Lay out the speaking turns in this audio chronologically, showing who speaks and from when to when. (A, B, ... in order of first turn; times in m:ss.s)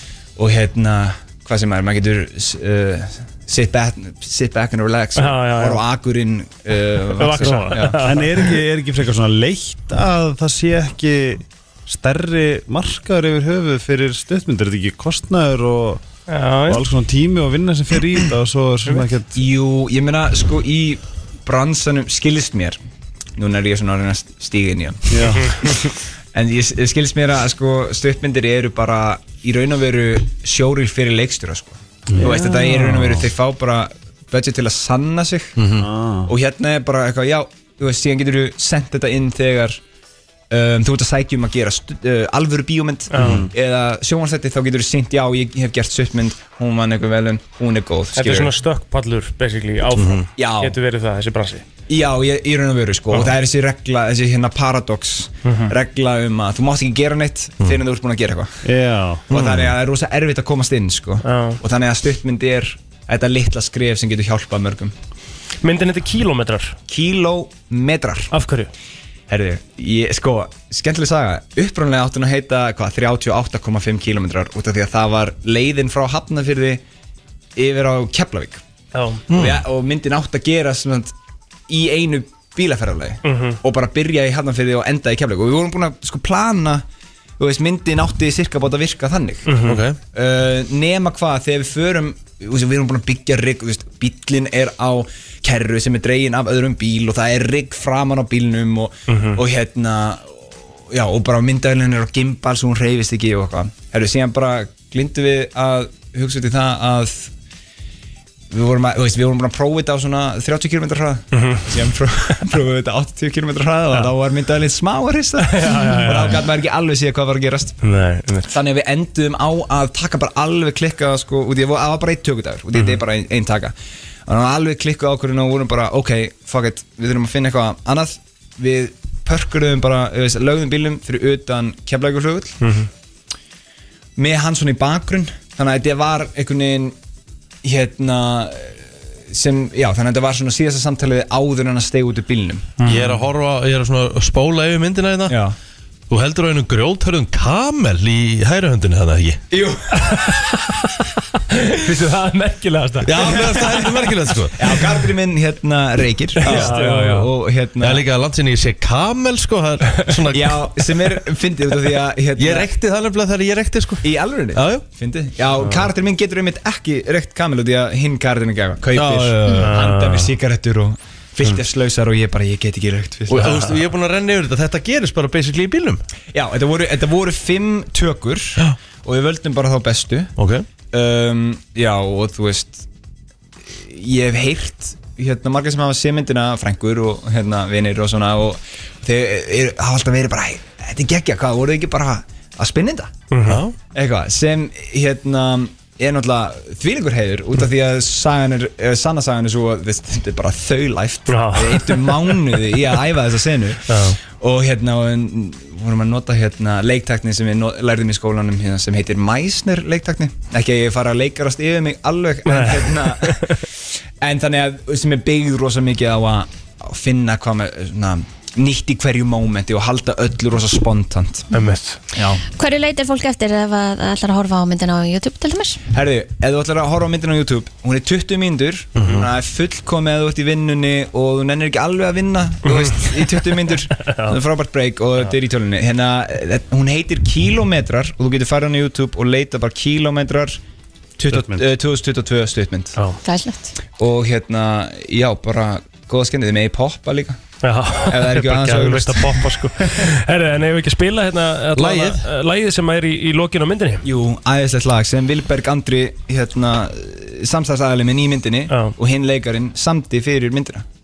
0:00.4-0:08.0 A
0:05.2-0:05.8 B
0:07.2-0:08.6 B
0:07.4-0:16.0 C
0:16.3-0:16.8 B
0:16.7-0:19.4 C
0:19.3-0:22.8 A
0:23.4-0:25.7 A
0:25.1-0:25.6 C
0:26.3-0:35.6 A
0:32.1-0:33.3 C
0:35.6-0:35.9 D
0:35.7-0:36.3 C
0:36.2-0:39.8 A
0:40.5-0:48.5 A
0:43.1-0:43.4 B
0:43.2-0:43.5 C
0:48.1-0:51.6 B
0:49.9-0:50.3 D
0:50.4-0:50.8 A
0:51.9-0:58.6 A
0:55.4-0:55.7 B
0:58.6-0:59.2 C
0:59.3-1:04.9 A
0:59.3-0:59.8 D
1:01.2-1:01.6 B
1:05.6-1:06.8 B
1:06.9-1:08.3 A
1:08.3-1:08.7 B
1:09.3-1:16.8 A
1:17.6-1:18.6 A
1:18.9-1:19.2 B
1:19.3-1:19.6 D
1:19.3-1:21.1 A
1:21.7-1:26.8 A
1:23.2-1:23.6 B
1:27.4-1:29.6 A
1:29.4-1:29.8 B
1:29.6-1:30.0 D
1:30.1-1:47.3 A
1:39.1-1:39.4 B
1:48.5-1:57.8 A
1:51.3-1:51.7 B
1:55.4-1:56.4 B
1:55.7-1:56.0 E
1:57.8-1:58.5 B
1:58.5-2:03.7 A
2:04.2-2:12.6 A
2:12.6-2:12.9 B
2:14.2-2:16.9 A
2:17.6-2:22.8 A
2:22.8-2:23.2 B
2:22.8-2:25.4 D
2:25.3-2:25.5 A
2:26.1-2:29.4 D
2:29.5-2:30.6 A
2:30.2-2:30.9 B
2:31.5-2:34.0 B
2:33.0-2:34.8 D
2:33.2-2:33.9 A
2:34.5-2:38.0 A
2:36.4-2:37.3 B
2:36.4-2:36.8 D
2:37.8-2:40.8 D
2:40.3-2:42.7 A
2:42.4-2:44.8 D
2:44.0-2:53.7 A
2:48.9-2:49.9 D
2:49.6-2:50.3 B
2:53.3-2:56.0 D
2:56.3-3:00.3 A
3:00.4-3:00.6 D
3:00.9-3:02.9 A
3:03.7-3:13.1 A
3:13.3-3:13.6 B
3:13.4-3:13.8 D
3:13.9-3:33.6 A
3:21.3-3:22.5 B
3:23.9-3:24.2 B
3:32.5-3:33.6 B
3:34.2-3:41.5 A
3:41.5-3:42.0 B
3:42.1-3:42.4 A
3:42.5-3:45.8 E
3:45.9-4:00.6 A
3:52.7-3:53.3 B
3:54.0-3:54.4 B
4:01.2-4:03.0 A
4:01.3-4:01.6 C
4:03.2-4:03.7 E
4:04.0-4:07.4 A
4:07.6-4:14.0 B
4:08.1-4:09.9 A
4:11.7-4:12.2 D
4:14.0-4:20.8 A
4:18.7-4:18.9 B